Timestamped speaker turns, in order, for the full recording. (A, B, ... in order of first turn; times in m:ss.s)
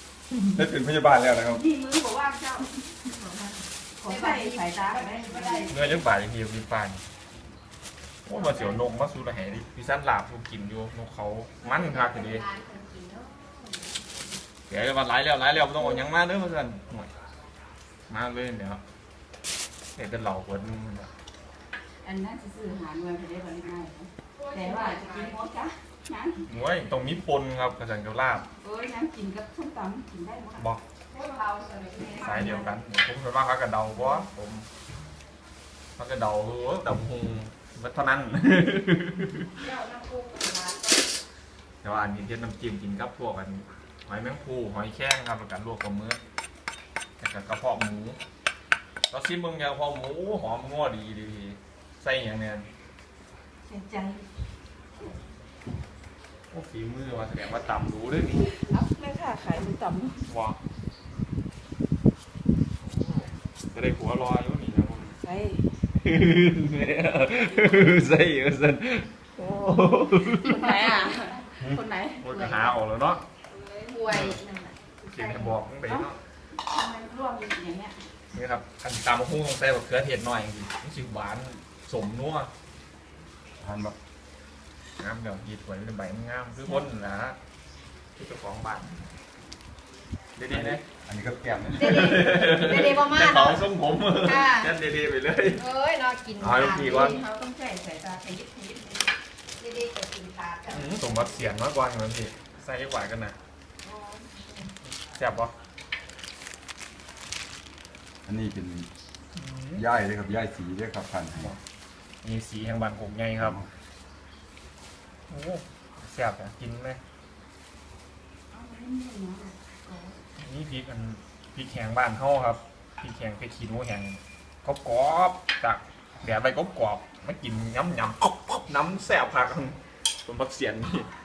0:00.5-0:01.6 A
0:01.5-0:06.0 B
0:04.0-0:05.9 C
0:05.7-0:07.0 D
0:08.2-0:12.4 D
0:08.3-0:08.8 C
0:11.6-0:13.9 C
0:14.7-0:17.1 D
0:18.1-0:18.8 D
0:20.0-0:21.1 D
0:22.0-0:26.4 B
0:24.3-0:25.4 C
0:26.5-0:28.5 D
0:28.6-0:30.6 B
0:31.1-0:32.7 C
0:32.2-0:32.7 B
0:32.2-0:34.6 D
0:36.0-0:39.5 D
0:39.6-0:41.1 C
0:41.8-0:46.2 D
0:47.2-0:48.2 D
0:49.1-0:52.7 D
0:53.6-0:54.2 B
0:56.5-0:58.5 D
0:58.5-1:00.3 B
1:00.3-1:00.6 D
1:02.8-1:05.2 D
1:05.2-1:05.6 B
1:06.0-1:10.7 D
1:07.4-1:07.9 B
1:09.4-1:12.2 B
1:11.6-1:13.2 D
1:12.3-1:12.6 C
1:13.5-1:14.2 B
1:13.9-1:15.6 C
1:14.1-1:14.4 D
1:15.0-1:16.2 D
1:15.9-1:18.0 B
1:18.3-1:22.5 D
1:23.6-1:23.9 A
1:25.0-1:27.4 D
1:26.6-1:26.8 B
1:28.2-1:29.0 D
1:30.4-1:30.8 D
1:30.5-1:32.2 A
1:31.7-1:33.6 C
1:31.8-1:35.6 D
1:34.2-1:34.7 C
1:35.6-1:37.2 C
1:36.4-1:37.2 D
1:36.7-1:39.1 B
1:39.6-1:41.5 C
1:40.7-1:43.4 D
1:43.8-1:44.7 B
1:45.2-1:45.5 D
1:48.2-1:48.9 A
1:49.4-1:49.8 D
1:49.8-1:51.5 A
1:52.2-1:53.6 D
1:53.4-1:53.6 A
1:55.3-1:57.0 D
1:58.5-2:00.2 B
2:00.4-2:11.1 D